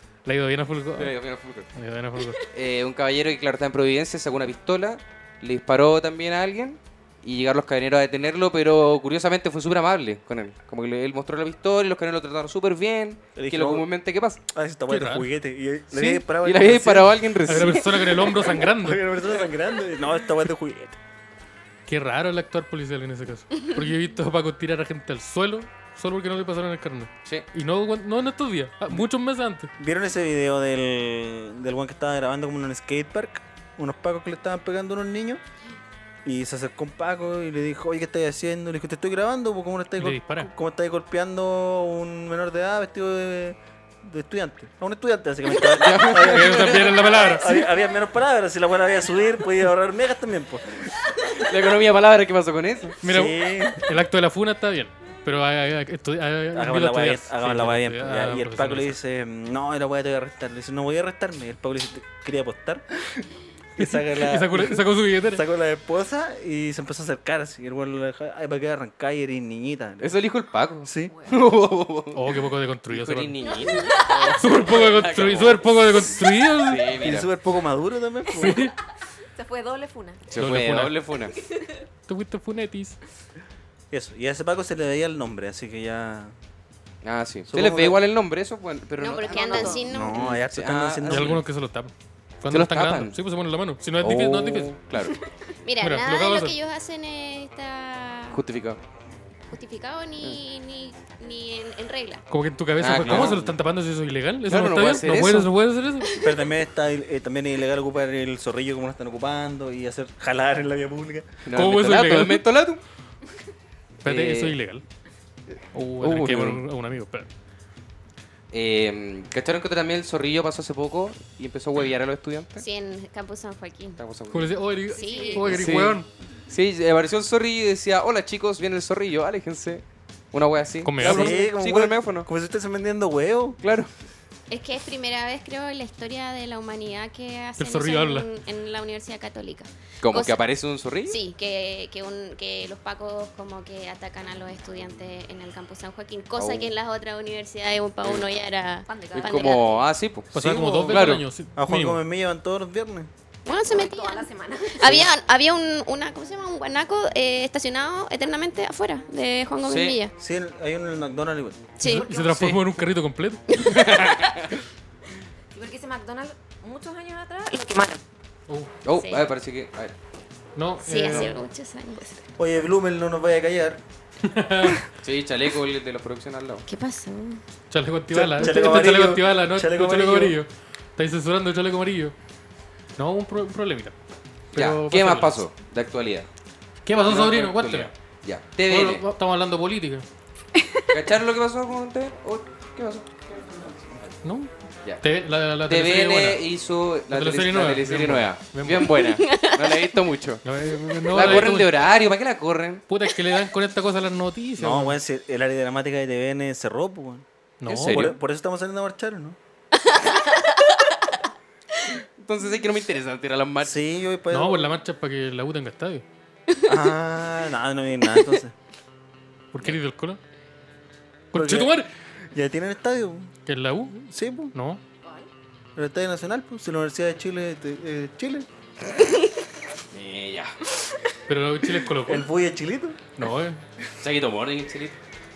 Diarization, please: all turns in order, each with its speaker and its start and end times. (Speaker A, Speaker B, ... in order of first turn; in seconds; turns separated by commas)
Speaker A: 0.2-1.1, Speaker B: 0.9-1.7, Speaker A: 1.7-2.4, Speaker B: 2.5-14.4, Speaker C: 13.3-13.9, Speaker C: 14.5-21.0, Speaker A: 14.9-15.3, Speaker B: 15.9-18.4, Speaker A: 17.4-19.0, Speaker A: 21.9-29.7, Speaker C: 29.8-35.4, Speaker C: 36.2-50.9, Speaker A: 40.0-40.5, Speaker B: 45.5-47.1, Speaker A: 46.2-47.6, Speaker B: 51.3-53.0, Speaker A: 53.0-59.0, Speaker C: 53.0-53.8, Speaker C: 56.5-70.1, Speaker A: 63.8-65.4, Speaker B: 70.0-72.3, Speaker C: 70.8-71.1, Speaker D: 71.1-71.4, Speaker A: 72.1-73.3, Speaker B: 72.9-77.3, Speaker E: 73.4-74.3, Speaker A: 74.4-76.9, Speaker C: 76.9-78.6, Speaker A: 78.3-78.7, Speaker D: 79.3-80.2, Speaker B: 80.3-81.4, Speaker A: 80.3-81.0, Speaker A: 82.1-83.0, Speaker C: 83.9-86.3, Speaker B: 87.0-91.4, Speaker C: 87.5-88.0, Speaker E: 89.0-90.4, Speaker D: 89.2-89.8, Speaker C: 89.8-91.4, Speaker A: 91.1-94.7, Speaker B: 92.5-93.1, Speaker B: 94.0-95.2, Speaker E: 95.6-98.4, Speaker A: 95.8-96.5, Speaker B: 98.3-98.8, Speaker E: 99.5-102.2, Speaker A: 102.3-106.1, Speaker B: 102.8-103.5, Speaker C: 103.0-103.5, Speaker B: 104.5-105.5, Speaker C: 106.2-111.4, Speaker B: 111.4-112.8, Speaker A: 111.5-112.4, Speaker A: 114.0-114.8, Speaker B: 114.0-114.5, Speaker A: 115.7-117.3, Speaker B: 116.0-116.6, Speaker B: 118.5-122.6, Speaker E: 122.6-124.0, Speaker B: 124.0-124.6, Speaker A: 124.3-126.1, Speaker E: 124.9-125.7, Speaker D: 125.0-125.6, Speaker B: 125.4-132.3, Speaker A: 130.8-131.4, Speaker C: 131.0-133.6, Speaker B: 133.6-133.9, Speaker E: 134.5-140.4, Speaker A: 137.6-138.3, Speaker B: 140.0-141.2, Speaker E: 141.1-149.8, Speaker B: 146.3-146.7, Speaker D: 148.9-149.6, Speaker B: 149.1-150.3, Speaker A: 150.3-152.0, Speaker C: 150.3-153.1, Speaker B: 150.8-151.2, Speaker E: 153.4-160.1, Speaker D: 153.7-154.9, Speaker B: 159.6-160.0, Speaker C: 160.2-161.8, Speaker E: 161.8-162.1, Speaker A: 161.8-163.6, Speaker D: 161.9-162.2, Speaker B: 162.2-162.6, Speaker B: 163.6-164.5, Speaker D: 165.5-168.0, Speaker B: 168.8-169.9, Speaker E: 169.0-169.2, Speaker A: 170.6-171.3, Speaker E: 170.8-172.1, Speaker D: 172.0-172.2, Speaker C: 172.4-173.8, Speaker A: 174.2-174.8, Speaker B: 175.0-176.6, Speaker E: 176.7-177.4, Speaker A: 177.7-182.1, Speaker C: 178.1-180.4, Speaker A: 183.0-183.9, Speaker A: 184.5-185.4, Speaker B: 184.5-186.3, Speaker A: 186.8-187.9, Speaker B: 187.0-189.0, Speaker A: 188.7-190.0, Speaker B: 190.9-194.0, Speaker A: 194.2-196.4, Speaker B: 195.7-200.4, Speaker A: 197.1-199.0, Speaker E: 199.0-199.9, Speaker A: 200.4-201.7, Speaker B: 201.1-202.8, Speaker A: 202.9-205.0, Speaker C: 204.6-207.2, Speaker A: 207.6-208.1, Speaker B: 207.7-208.1, Speaker C: 207.9-209.4, Speaker E: 209.8-210.6, Speaker B: 212.2-213.8, Speaker C: 213.6-214.7, Speaker A: 214.3-216.0, Speaker E: 216.5-216.8, Speaker C: 216.7-218.5, Speaker A: 219.5-220.2, Speaker A: 221.3-221.9, Speaker C: 221.3-221.7, Speaker C: 222.3-223.3, Speaker A: 223.4-224.0, Speaker C: 224.0-224.5, Speaker A: 224.5-224.8, Speaker C: 225.8-228.5, Speaker B: 229.9-230.5, Speaker A: 231.3-232.2, Speaker C: 232.1-233.2, Speaker A: 233.2-233.6, Speaker B: 234.0-235.0